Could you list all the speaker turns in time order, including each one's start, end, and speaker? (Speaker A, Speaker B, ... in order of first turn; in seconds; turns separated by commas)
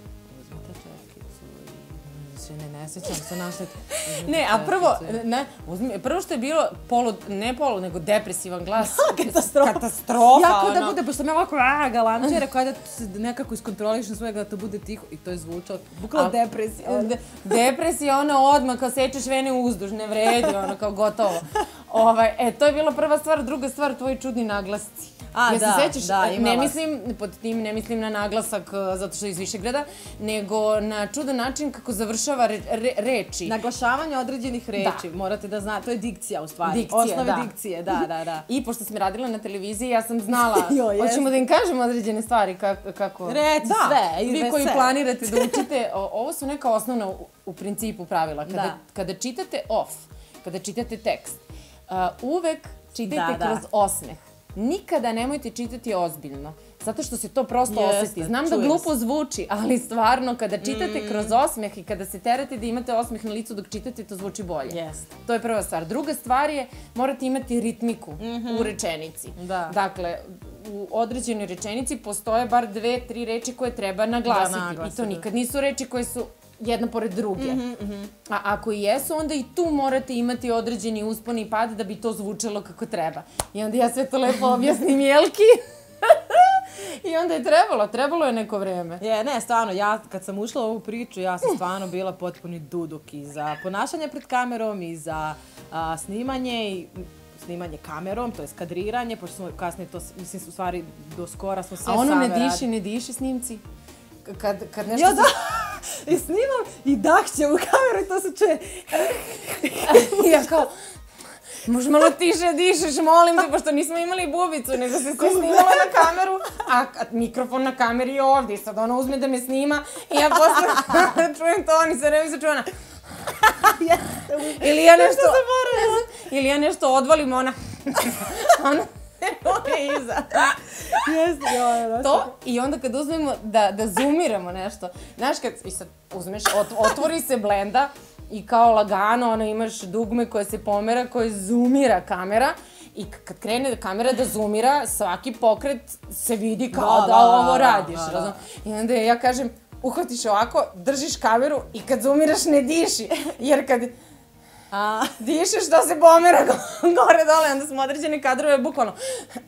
Speaker A: 0.3-5.2, Speaker B: 3.9-11.0, Speaker A: 8.8-17.1, Speaker B: 16.1-33.5, Speaker A: 25.3-26.8, Speaker A: 33.4-38.5, Speaker B: 34.8-35.0, Speaker B: 36.6-37.5, Speaker B: 38.5-77.6, Speaker A: 40.3-41.4, Speaker A: 43.2-45.6, Speaker A: 48.5-48.8, Speaker A: 53.0-53.6, Speaker A: 57.7-58.9, Speaker A: 60.6-61.4, Speaker A: 64.7-65.1, Speaker A: 68.2-68.8, Speaker A: 69.3-69.8, Speaker A: 74.2-75.3, Speaker A: 77.4-78.1, Speaker B: 78.2-89.0, Speaker A: 89.0-102.7, Speaker B: 101.8-103.6, Speaker B: 104.2-105.3, Speaker A: 104.9-110.6, Speaker B: 109.8-110.7, Speaker B: 111.6-122.7, Speaker A: 115.1-116.1, Speaker B: 123.2-123.5, Speaker A: 123.6-126.0, Speaker B: 124.4-131.0, Speaker A: 130.9-132.3, Speaker B: 132.0-153.9, Speaker A: 146.7-148.4, Speaker A: 154.7-155.1, Speaker B: 155.2-159.0